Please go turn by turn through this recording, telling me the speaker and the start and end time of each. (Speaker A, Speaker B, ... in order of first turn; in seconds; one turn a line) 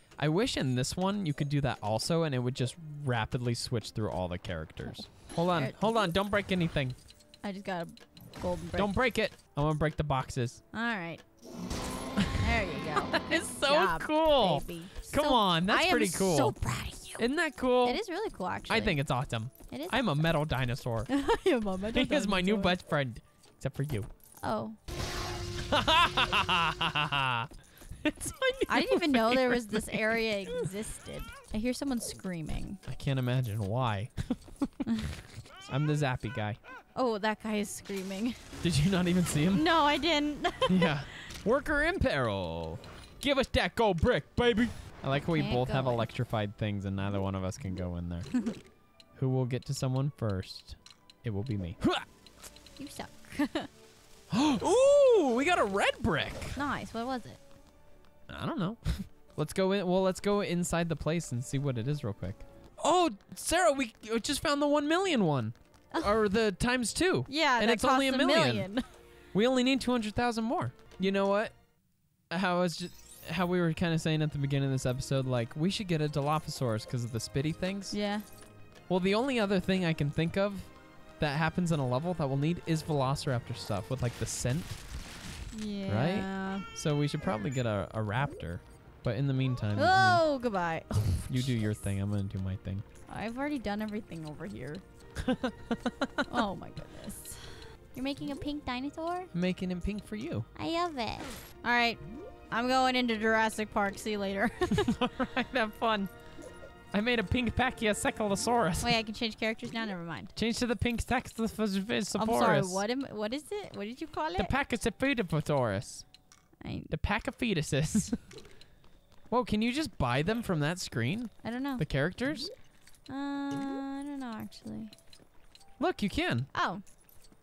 Speaker A: 0.2-7.0
Speaker B: 4.8-5.8
Speaker B: 7.4-8.9
Speaker A: 8.8-10.6
Speaker B: 10.7-11.2
Speaker A: 12.2-12.4
Speaker B: 12.4-17.2
Speaker A: 13.0-16.5
Speaker A: 17.2-18.0
Speaker B: 17.8-19.0
Speaker A: 18.7-21.1
Speaker B: 19.7-20.0
Speaker B: 21.1-22.8
Speaker A: 21.9-24.1
Speaker B: 24.4-24.8
Speaker A: 25.7-27.5
Speaker A: 28.0-30.2
Speaker B: 28.7-32.8
Speaker A: 32.9-34.8
Speaker A: 35.6-36.6
Speaker B: 36.9-38.4
Speaker A: 38.6-39.6
Speaker B: 39.5-41.0
Speaker A: 40.6-48.3
Speaker B: 45.2-46.1
Speaker A: 49.1-52.0
Speaker B: 52.8-53.7
Speaker A: 54.3-56.6
Speaker B: 56.5-57.4
Speaker A: 58.3-68.7
Speaker B: 67.3-68.8
Speaker A: 69.3-71.5
Speaker A: 72.3-78.0
Speaker B: 77.9-78.2
Speaker A: 78.9-84.8
Speaker B: 85.5-86.7
Speaker A: 85.9-90.2
Speaker B: 89.7-91.5
Speaker A: 91.3-92.8
Speaker B: 93.1-94.8
Speaker A: 95.2-96.2
Speaker B: 96.3-99.3
Speaker A: 99.3-100.5
Speaker B: 100.5-105.0
Speaker A: 104.7-106.1
Speaker A: 106.9-108.9
Speaker B: 108.8-110.3
Speaker A: 110.3-112.8
Speaker B: 112.1-114.5
Speaker A: 114.4-116.0
Speaker B: 116.6-116.9
Speaker A: 116.9-118.2
Speaker A: 119.3-122.5
Speaker B: 121.4-121.8
Speaker B: 123.1-124.9
Speaker A: 125.8-126.5
Speaker B: 126.5-126.8